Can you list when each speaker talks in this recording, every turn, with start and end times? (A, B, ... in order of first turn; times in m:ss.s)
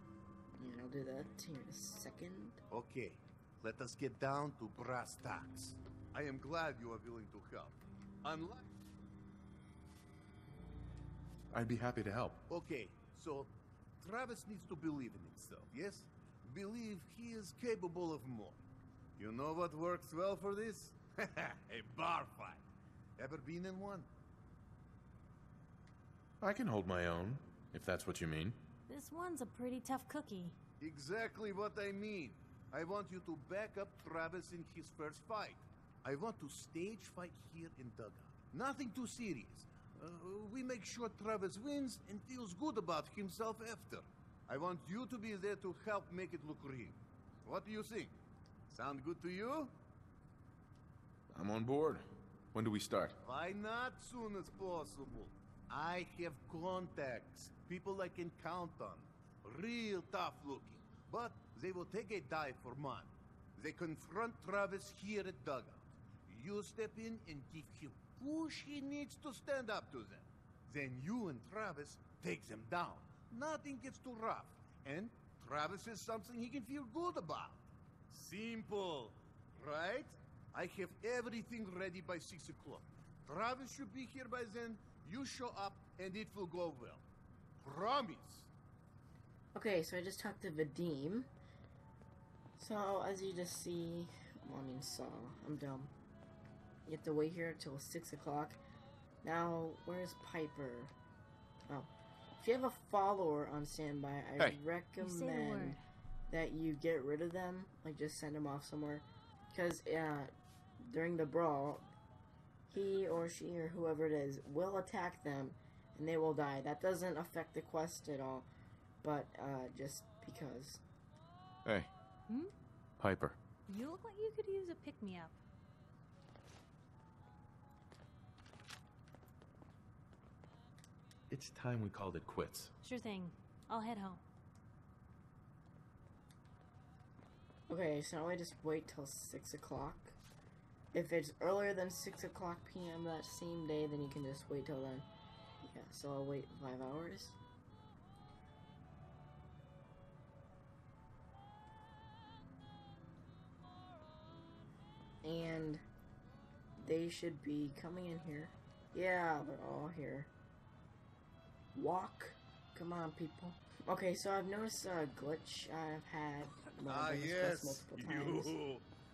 0:00.6-0:02.6 A
0:02.7-0:08.7 B
0:11.5-0:12.4 C
0:12.5-0:18.6 B
0:19.2-0:22.6 B
0:23.2-0:24.1 B
0:26.4-0:28.6 C
0:28.9-0:30.6 D
0:30.8-0:48.2 B
0:48.7-0:49.7 B
0:51.3-0:53.2 C
0:53.2-1:27.0 B
1:27.6-1:28.5 B
1:29.6-1:31.3 A
1:32.6-1:35.9 A
1:36.9-1:38.6 A
1:39.2-1:40.9 A
1:41.7-1:51.9 A
1:45.0-1:45.8 D
1:52.7-1:58.5 A
1:59.0-2:00.8 A
2:01.6-2:01.9 C
2:03.0-2:03.4 C
2:03.7-2:05.4 D
2:11.3-2:12.7 C
2:12.8-2:14.2 D
2:17.7-2:20.2 A
2:20.9-2:25.1 A
2:25.6-2:27.4 A
2:35.2-2:35.8 A
2:36.8-2:40.3 A
2:41.8-2:48.6 A
2:46.9-2:48.8 B